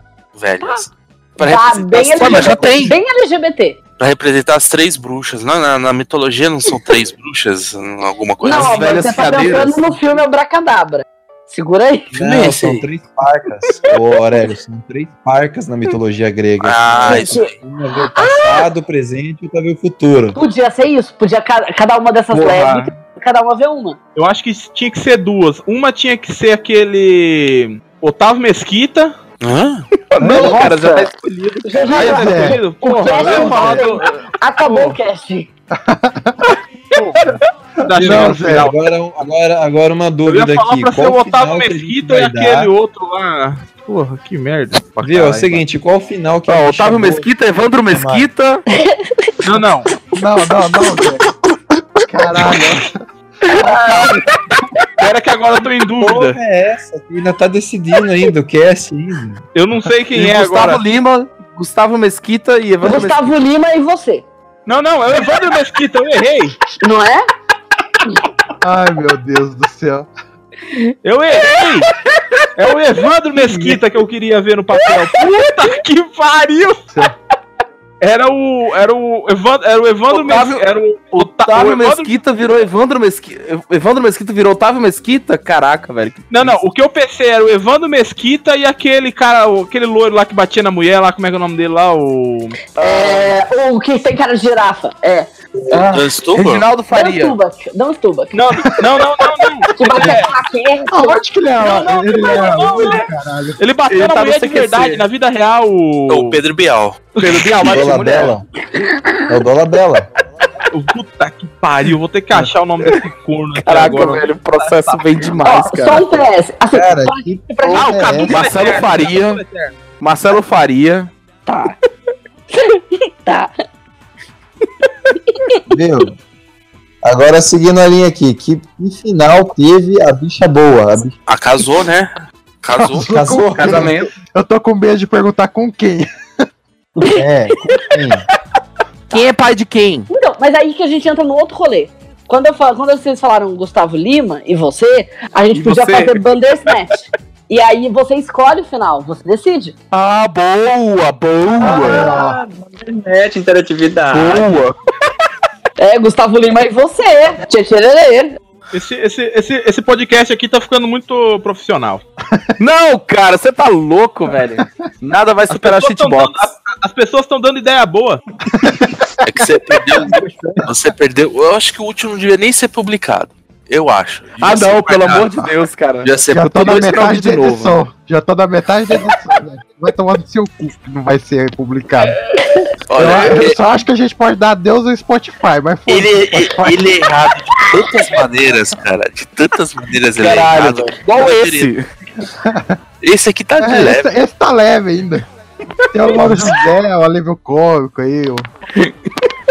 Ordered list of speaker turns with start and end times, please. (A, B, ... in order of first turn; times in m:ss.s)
0:00.3-0:02.8 A
0:01.4-0:03.8 B
0:01.9-0:02.9 C
0:04.0-0:09.1 A
0:08.4-0:12.1 B
0:08.4-0:10.0 C
0:12.1-0:20.4 D
0:12.2-0:12.8 A
0:16.6-0:17.5 A
0:17.0-0:17.5 B
0:18.1-0:18.7 B
0:20.3-0:24.0 B
0:22.3-0:22.8 C
0:24.1-0:29.1 E
0:29.4-0:29.8 A
0:30.1-0:31.1 C
0:30.2-0:34.9 E
0:30.2-0:30.6 F
0:30.5-0:31.1 B
0:31.6-0:35.5 B
0:31.9-0:32.6 F
0:33.1-0:33.8 F
0:35.7-0:36.5 F
0:37.0-0:37.2 E
0:37.8-0:38.7 E
0:37.9-0:38.7 F
0:37.9-0:42.7 D
0:40.2-0:45.6 E
0:45.0-0:47.3 D
0:45.1-0:45.6 C
0:46.4-0:48.6 C
0:47.9-0:48.3 D
0:48.7-0:49.3 B
0:49.4-0:49.9 E
0:50.1-0:51.3 F
0:52.0-0:53.0 F
0:53.5-0:54.3 B
0:53.5-0:54.1 F
0:55.0-0:56.4 E
0:56.0-0:59.4 D
0:59.5-1:00.8 E
1:00.2-1:03.3 C
1:02.8-1:04.2 B
1:04.7-1:06.6 E
1:06.8-1:07.3 B
1:08.6-1:10.1 F
1:11.0-1:11.9 E
1:12.6-1:16.9 E
1:18.0-1:22.1 E
1:20.1-1:26.5 C
1:26.3-1:32.8 E
1:32.8-1:36.0 B
1:32.8-1:33.3 C
1:35.7-1:37.4 C
1:35.9-1:36.6 A
1:36.9-1:38.4 B
1:38.3-1:40.3 E
1:39.7-1:41.2 B
1:40.9-1:43.6 F
1:41.6-1:43.0 E
1:43.6-1:46.4 E
1:43.8-1:45.0 C
1:46.1-1:47.1 A
1:47.1-1:48.3 E
1:47.2-1:48.3 C
1:47.5-1:48.4 D
1:49.3-1:50.1 D
1:50.7-1:55.3 E
1:53.6-1:56.2 C
1:55.4-1:58.2 B
1:56.7-1:58.8 D
1:57.6-1:59.7 E
1:57.7-1:59.4 C
2:00.0-2:01.1 C
2:01.4-2:01.7 B
2:02.5-2:03.5 B
2:05.7-2:06.2 D
2:07.0-2:11.1 D
2:11.3-2:12.1 A
2:12.6-2:13.1 A
2:12.8-2:16.1 F
2:13.0-2:14.0 D
2:13.4-2:14.1 C
2:17.0-2:18.2 D
2:19.1-2:20.1 C
2:20.1-2:26.9 B
2:25.6-2:26.2 C
2:27.5-2:29.7 B
2:29.9-2:32.1 C
2:31.6-2:34.5 G
2:31.6-2:32.4 F
2:34.1-2:34.8 C
2:35.8-2:38.4 B
2:38.7-2:42.0 E
2:42.6-2:46.5 C
2:45.5-2:48.2 E
2:48.5-2:49.0 F
2:49.2-2:55.3 A
2:54.4-2:57.8 C
2:56.0-2:56.3 A
2:56.3-3:02.2 F
3:02.9-3:03.6 A
3:02.9-3:06.9 F
3:05.9-3:11.7 A
3:10.2-3:11.9 C
3:12.4-3:12.7 F
3:13.0-3:14.1 A
3:13.6-3:15.2 F
3:15.9-3:18.5 F